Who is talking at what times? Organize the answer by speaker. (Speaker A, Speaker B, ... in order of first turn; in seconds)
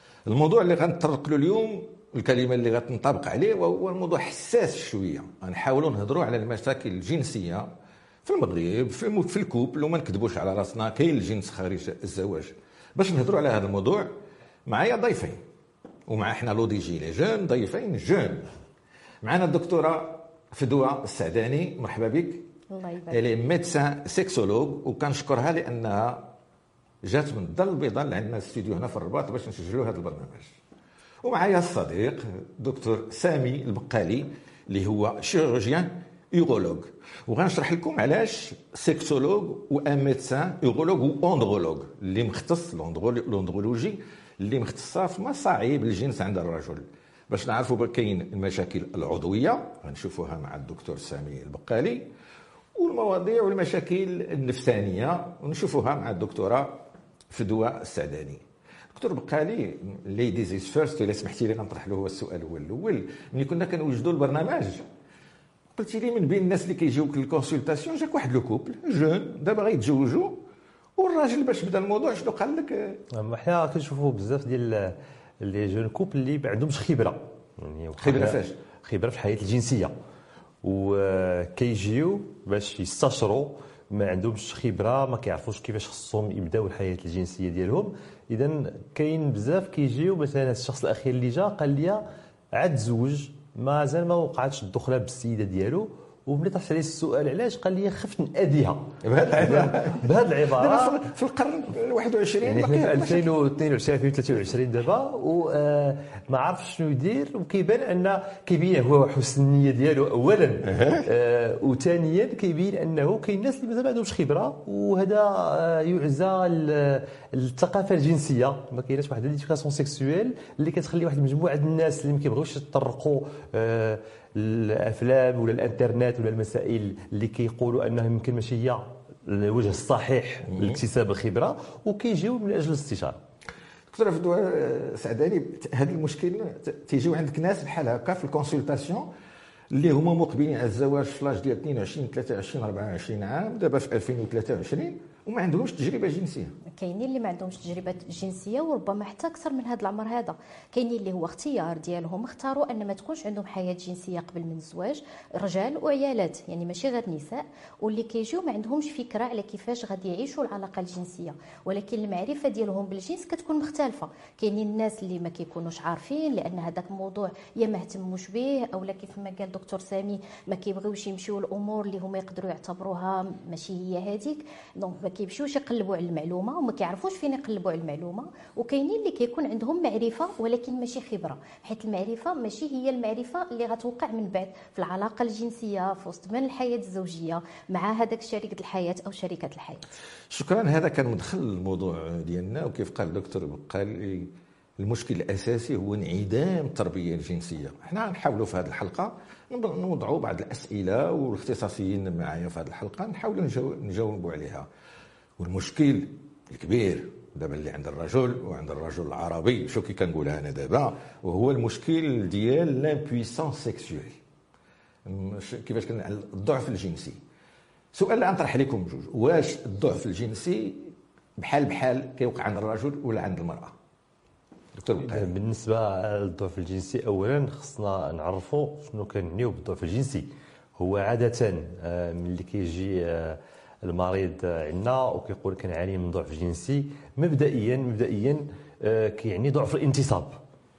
Speaker A: 0.3-7.7, 8.2-14.1, 14.7-15.4, 16.1-18.5, 19.2-22.5, 23.1-26.3, 27.0-30.6, 31.2-52.1, 52.8-64.8, 65.8-70.4, 71.0-73.0, 78.0-78.6, 99.0-103.3, 110.6-111.0, 133.9-139.1, 139.7-146.5, 190.3-204.7, 205.4-214.2, 215.1-217.2, 217.9-223.7, 224.8-225.4
Speaker B: 22.7-23.2, 146.7-189.9
Speaker C: 73.1-79.9, 80.6-101.0, 102.4-133.2, 225.0-240.4